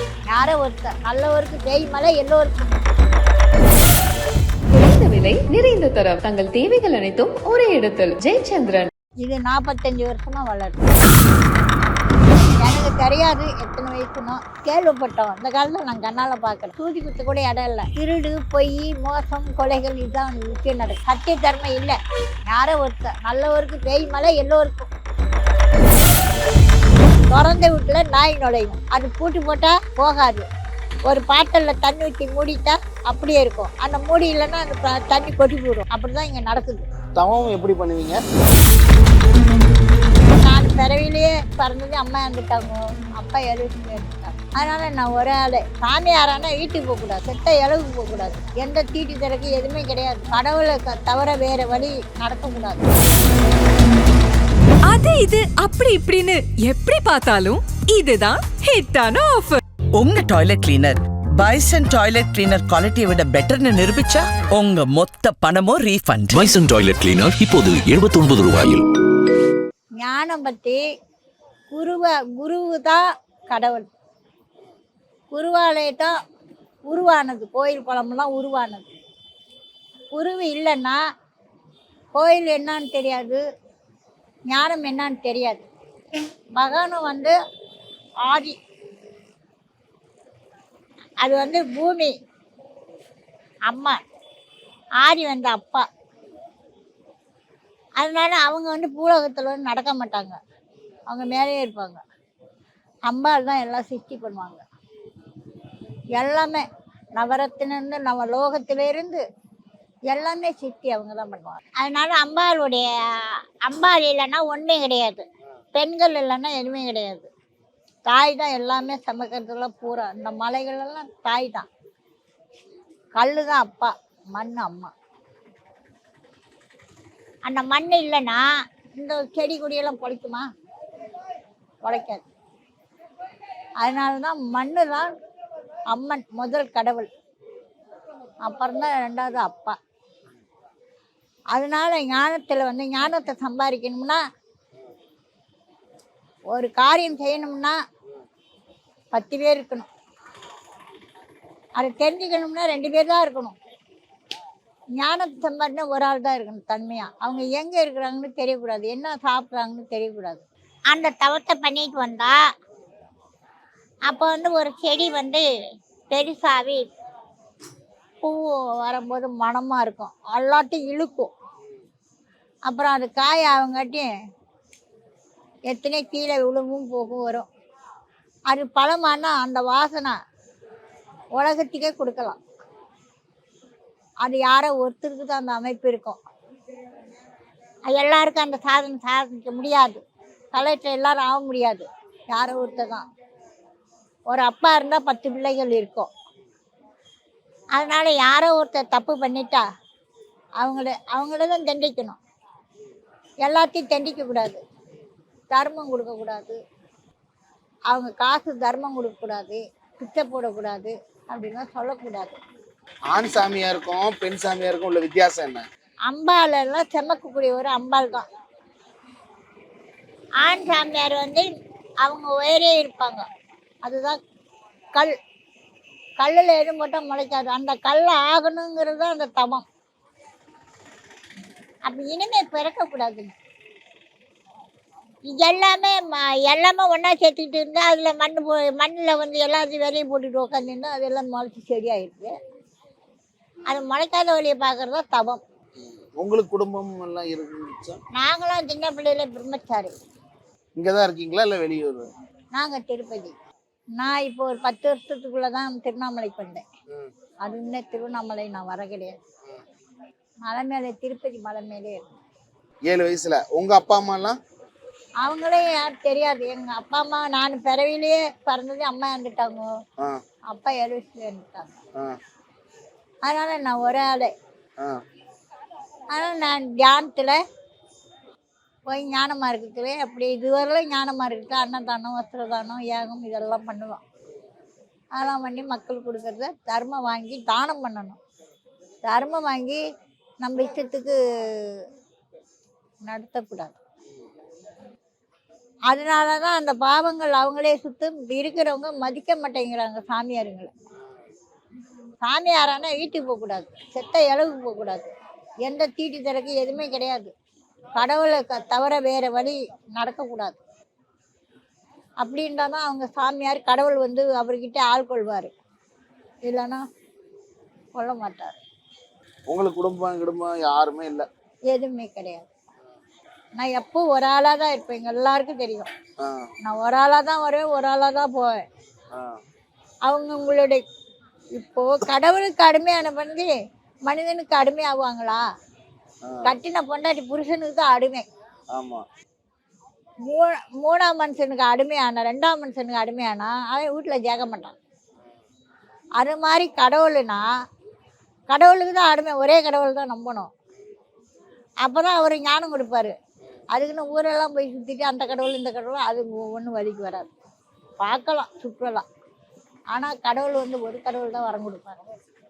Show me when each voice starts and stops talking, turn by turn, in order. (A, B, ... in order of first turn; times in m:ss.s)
0:00.3-0:02.7 A
0:04.7-0:08.9 B
0:09.2-0:10.9 A
0:12.6-0:24.9 A
0:27.3-0:30.5 A
0:31.1-0:36.9 A
0:37.2-0:38.2 C
0:40.4-0:52.8 A
0:54.9-0:59.6 D
1:00.0-1:06.5 E
1:06.3-1:08.8 F
1:10.0-1:10.8 A
1:11.7-1:13.9 A
1:15.3-1:16.2 A
1:16.9-1:18.9 A
1:20.1-1:21.0 A
1:22.1-1:23.4 A
1:24.5-1:25.6 A
1:26.6-1:27.4 A
1:28.2-1:28.6 A
1:31.2-1:32.1 A
1:33.7-1:34.0 A
1:35.0-1:35.9 A
1:38.0-1:40.4 A
1:41.1-1:42.0 A
1:43.1-1:44.6 A
1:46.2-1:46.7 A
1:47.2-1:49.2 A
1:50.1-1:57.3 A
1:58.1-2:01.7 A
2:03.2-2:04.9 A
2:07.4-2:10.5 A
2:11.8-2:12.2 A
2:13.8-2:15.1 A
2:15.9-2:17.1 A
2:18.4-2:19.8 A
2:21.5-2:24.2 A
2:26.5-2:27.8 A
2:29.1-2:29.9 A
2:31.8-2:33.6 A
2:35.0-2:42.4 A
2:44.1-2:45.5 A
2:46.1-2:46.9 A
2:48.2-2:51.3 A
2:52.7-2:54.1 A
2:55.7-2:57.5 A
2:58.5-3:00.2 A
3:01.4-3:02.4 A
3:04.2-3:06.2 A
3:07.9-3:10.0 A
3:10.5-3:13.1 A
3:14.3-3:16.1 A
3:17.8-3:19.6 A
3:20.6-3:22.2 A
3:23.4-3:24.6 A
3:25.5-3:26.6 A
3:27.9-3:32.4 A
3:33.1-3:35.6 C
3:36.1-3:38.3 A
3:40.4-3:41.5 A
3:42.0-3:43.2 A
3:43.8-3:44.2 A
3:46.2-3:49.6 A
3:51.8-3:53.3 A
3:55.3-4:02.3 A
4:03.7-4:05.4 A
4:06.2-4:08.0 C
4:08.2-4:09.9 A
4:10.8-4:12.1 C
4:12.5-4:13.4 A
4:14.0-4:16.6 A
4:17.4-4:19.2 A
4:20.4-4:22.1 A
4:22.9-4:24.4 C
4:25.2-4:29.7 A
4:30.5-4:31.8 A
4:33.2-4:34.3 A
4:36.1-4:37.4 A
4:38.9-4:44.0 A
4:45.2-4:48.2 A
4:49.0-4:49.8 A
4:50.4-4:51.9 A
4:53.0-4:53.8 A
4:55.9-5:00.7 A
5:02.2-5:05.1 A
5:05.6-5:07.3 A
5:08.0-5:10.6 A
5:12.2-5:15.5 A
5:16.5-5:16.8 A
5:18.0-5:18.6 A
5:19.5-5:21.3 C
5:21.7-5:22.5 A
5:23.6-5:25.9 A
5:26.2-5:26.5 C
5:26.6-5:28.6 A
5:30.1-5:30.8 A
5:31.6-5:33.5 A
5:34.1-5:35.4 A
5:36.3-5:36.5 C
5:36.4-5:38.2 A
5:38.7-5:39.0 C
5:40.2-5:44.8 A
5:46.2-5:47.5 A
5:48.5-5:50.5 A
5:51.8-5:53.2 A
5:53.7-5:57.3 A
5:58.0-5:59.0 A
5:59.9-6:02.0 A